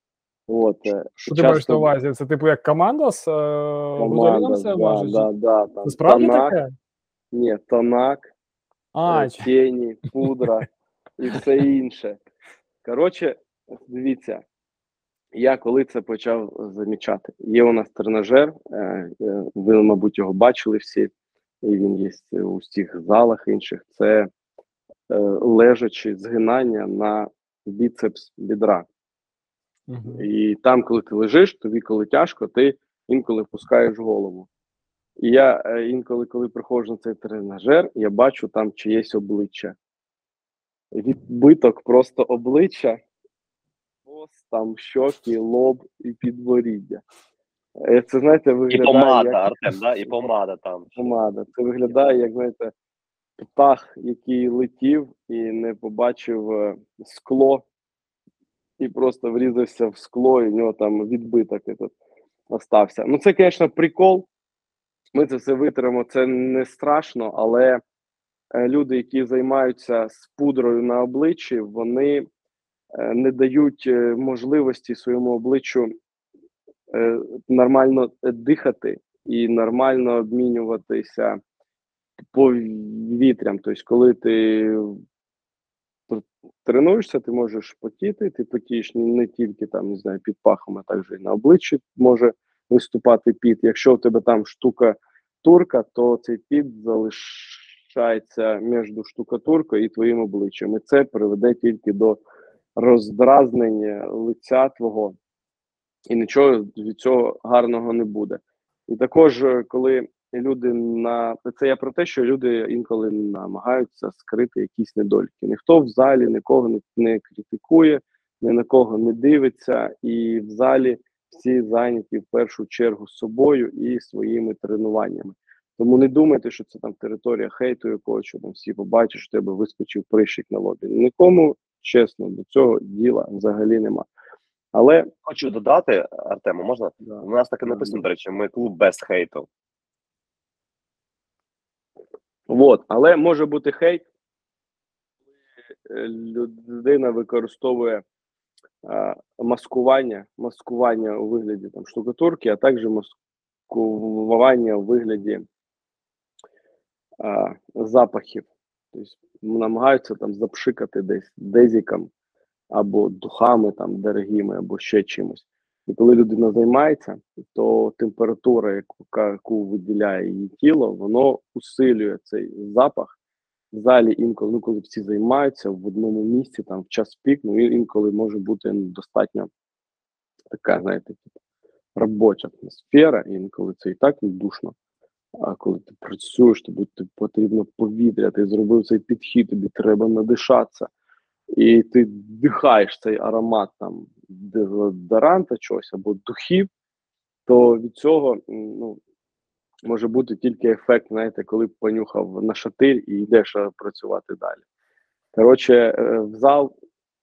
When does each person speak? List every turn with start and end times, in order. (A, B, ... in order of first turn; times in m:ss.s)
0:00.5-0:01.9 A
0:01.2-0:05.3 B
0:04.0-0:06.6 A
0:05.8-0:06.7 B
0:07.3-0:08.3 A
0:08.9-0:09.5 B
0:09.1-0:10.7 A
0:11.2-0:12.2 A
0:12.8-0:14.4 A
0:15.4-0:21.1 A
0:21.6-0:24.3 A
0:25.1-0:28.9 A
0:29.9-0:30.2 B
0:30.1-0:34.5 A
0:35.2-0:39.8 A
0:40.9-0:43.0 A
0:44.1-0:47.0 A
0:47.8-0:50.1 A
0:48.7-0:51.1 C
0:51.0-0:52.7 A
0:53.4-0:57.6 A
0:58.8-1:01.9 A
1:02.5-1:04.3 A
1:05.2-1:07.8 A
1:08.5-1:12.3 A
1:13.0-1:15.9 A
1:16.9-1:21.4 A
1:22.3-1:25.0 A
1:26.1-1:42.2 A
1:42.8-1:45.2 A
1:46.1-2:14.1 A
2:14.7-2:15.1 A
2:15.2-2:19.5 C
2:17.0-2:18.0 A
2:22.5-2:24.0 A
2:25.9-2:28.0 A
2:28.8-2:33.1 A
2:33.7-2:35.4 A
2:37.2-2:42.1 A
2:42.7-2:53.2 A
2:53.7-2:59.5 A
3:00.5-3:01.3 A
3:02.0-3:04.7 A
3:05.4-3:10.9 A
3:11.5-3:16.7 A
3:17.5-3:19.0 A
3:19.9-3:24.6 A
3:25.3-3:26.7 A